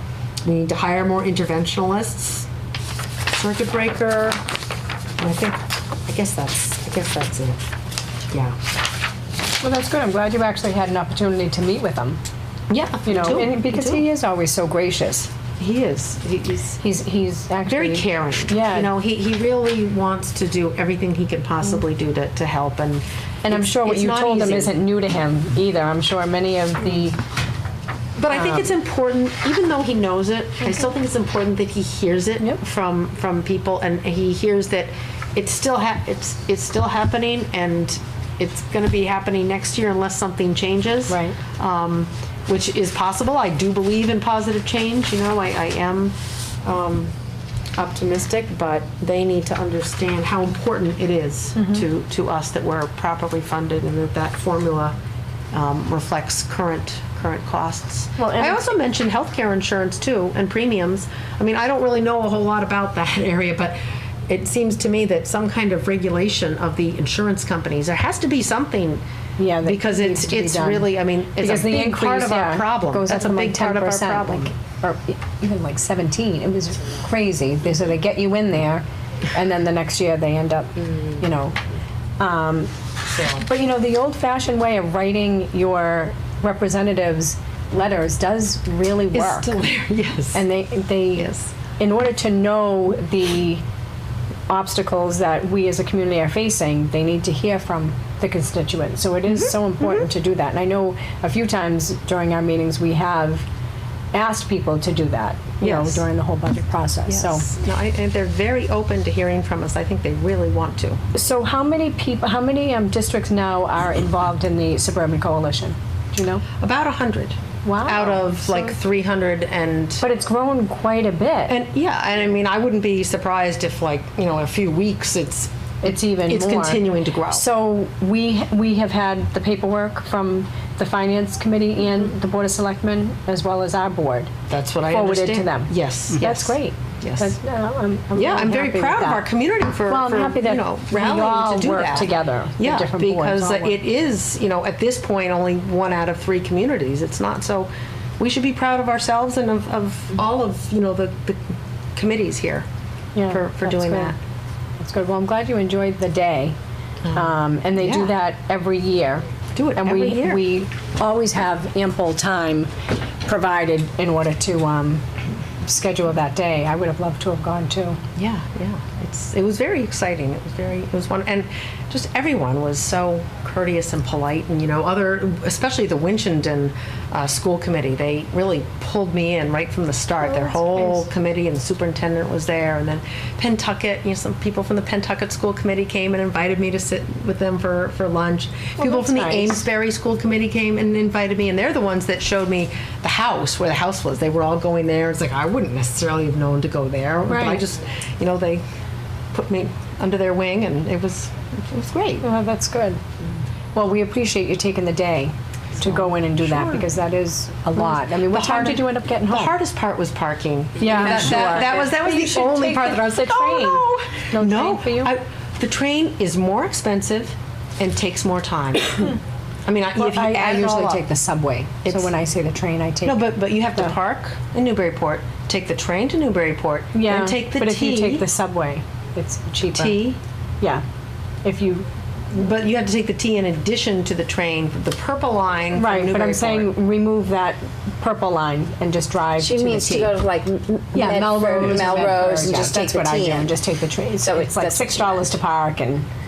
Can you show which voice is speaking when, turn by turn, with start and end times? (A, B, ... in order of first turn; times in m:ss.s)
0:00.4-0:02.5 A
0:03.3-0:04.4 A
0:05.2-0:07.6 A
0:08.3-0:08.6 A
0:09.6-0:12.2 B
0:12.7-0:14.0 A
0:13.1-0:15.3 B
0:15.6-0:16.8 A
0:16.8-0:18.9 B
0:17.7-0:24.7 A
0:23.4-0:27.2 B
0:28.2-0:47.1 A
0:28.3-0:28.7 B
0:41.1-0:41.4 B
0:47.8-0:55.0 A
0:51.6-0:51.8 B
0:55.5-1:03.8 A
0:58.2-0:58.6 B
1:04.3-1:09.0 A
1:09.4-1:21.6 B
1:09.6-1:14.5 A
1:22.2-1:22.7 B
1:23.1-1:23.5 A
1:23.4-1:29.5 B
1:29.1-1:30.4 A
1:30.3-1:33.6 B
1:31.2-1:31.6 A
1:34.5-1:43.5 B
1:39.3-1:40.1 A
1:44.1-1:47.4 B
1:45.6-1:46.1 A
1:47.1-1:51.0 A
1:51.1-1:56.4 B
1:56.6-2:00.0 A
1:57.6-1:58.8 B
2:00.0-2:01.6 B
2:01.5-2:07.5 A
2:05.8-2:14.3 B
2:14.5-2:17.4 A
2:14.9-2:19.3 B
2:18.2-2:31.4 A
2:19.9-2:23.8 B
2:32.0-2:32.7 A
2:33.2-2:34.1 B
2:33.2-2:34.2 A
2:34.8-2:36.6 B
2:37.0-2:38.1 A
2:37.1-2:39.2 B
2:39.6-2:40.4 A
2:39.8-2:42.7 B
2:43.2-2:45.0 B
2:45.6-2:48.0 B
2:48.2-3:18.6 A
3:00.2-3:01.0 B
3:08.8-3:09.6 B
3:17.3-3:17.6 B
3:19.3-3:22.3 A
3:22.2-3:23.0 B
3:23.7-3:29.6 B
3:25.8-3:26.9 A
3:27.8-3:41.1 A
3:30.8-3:35.1 B
3:40.0-3:44.0 B
3:41.8-3:42.1 A
3:43.0-3:48.3 A
3:46.9-3:50.0 B
3:49.7-3:50.2 A
3:51.4-3:51.9 B
3:52.3-3:56.7 A
3:55.8-4:00.2 B
3:59.4-4:03.5 C
4:00.9-4:06.1 B
4:04.2-4:05.3 C